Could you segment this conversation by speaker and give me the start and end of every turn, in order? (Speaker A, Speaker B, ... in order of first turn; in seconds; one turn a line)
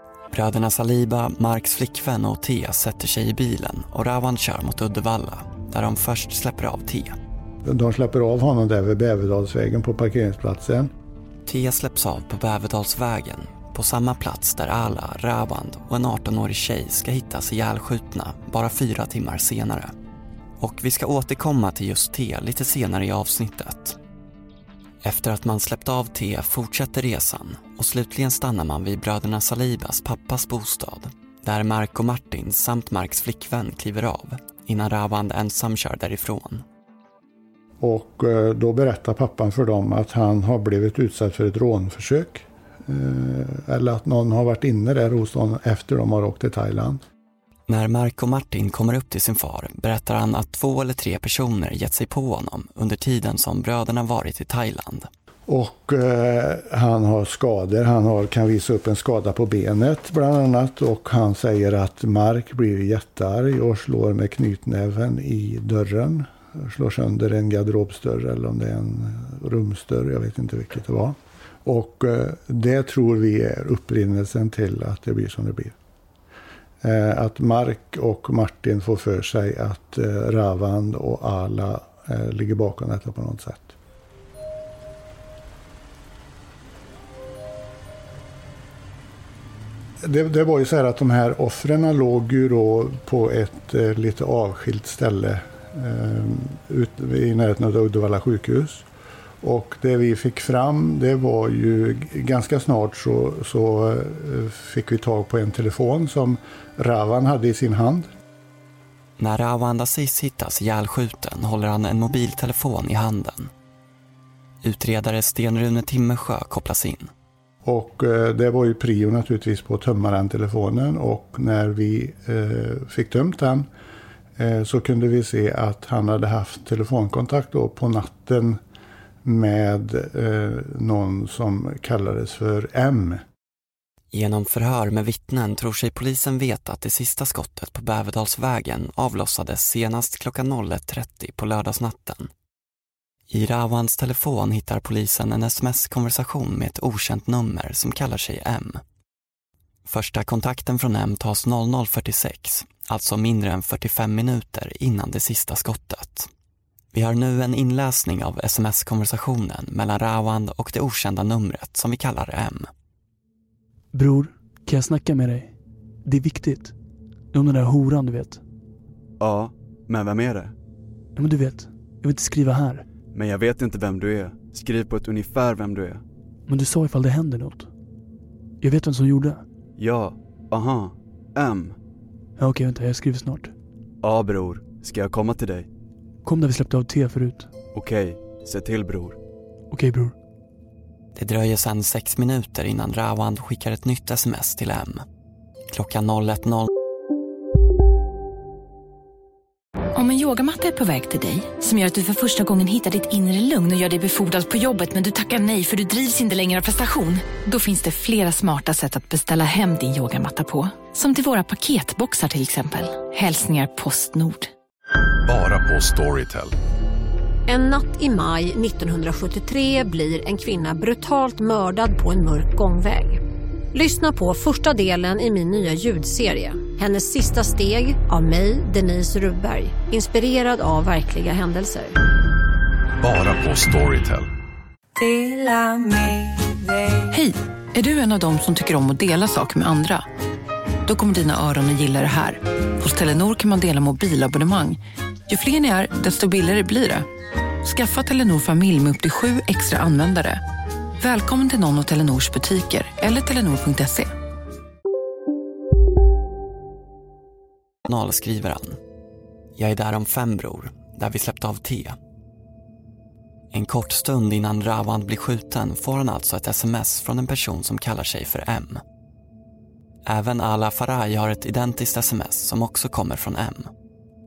Speaker A: 0.3-7.2
Speaker B: 7.6-10.9
Speaker A: 11.4-19.9
Speaker A: 20.6-24.0
Speaker A: 25.0-36.6
Speaker B: 37.8-47.0
Speaker A: 47.7-55.1
Speaker B: 55.5-75.8
Speaker B: 76.8-83.8
Speaker B: 90.0-98.9
Speaker B: 99.4-108.1
Speaker A: 109.2-113.5
Speaker A: 114.6-117.1
Speaker B: 117.6-123.7
Speaker B: 124.4-128.6
Speaker B: 129.2-133.2
Speaker A: 134.1-142.3
Speaker A: 143.3-148.8
Speaker A: 149.9-156.3
Speaker A: 156.9-162.7
Speaker C: 163.9-166.8
Speaker C: 167.3-168.4
Speaker D: 169.2-170.5
Speaker C: 171.2-172.9
Speaker D: 173.1-176.0
Speaker C: 176.5-177.7
Speaker C: 178.6-179.4
Speaker D: 179.8-181.8
Speaker C: 182.4-183.5
Speaker D: 184.0-185.7
Speaker C: 186.2-187.5
Speaker D: 187.7-189.2
Speaker C: 189.7-190.1
Speaker A: 191.1-195.0
Speaker A: 195.7-196.7
Speaker E: 199.9-214.5
Speaker F: 215.2-216.5
Speaker G: 217.5-223.2
Speaker G: 223.7-231.9
Speaker F: 233.0-234.3
Speaker H: 237.1-240.0
Speaker H: 240.9-247.1
Speaker H: 247.7-250.4
Speaker H: 251.0-254.0
Speaker A: 257.9-258.8
Speaker A: 259.6-262.0
Speaker A: 263.5-268.8
Speaker A: 270.1-273.7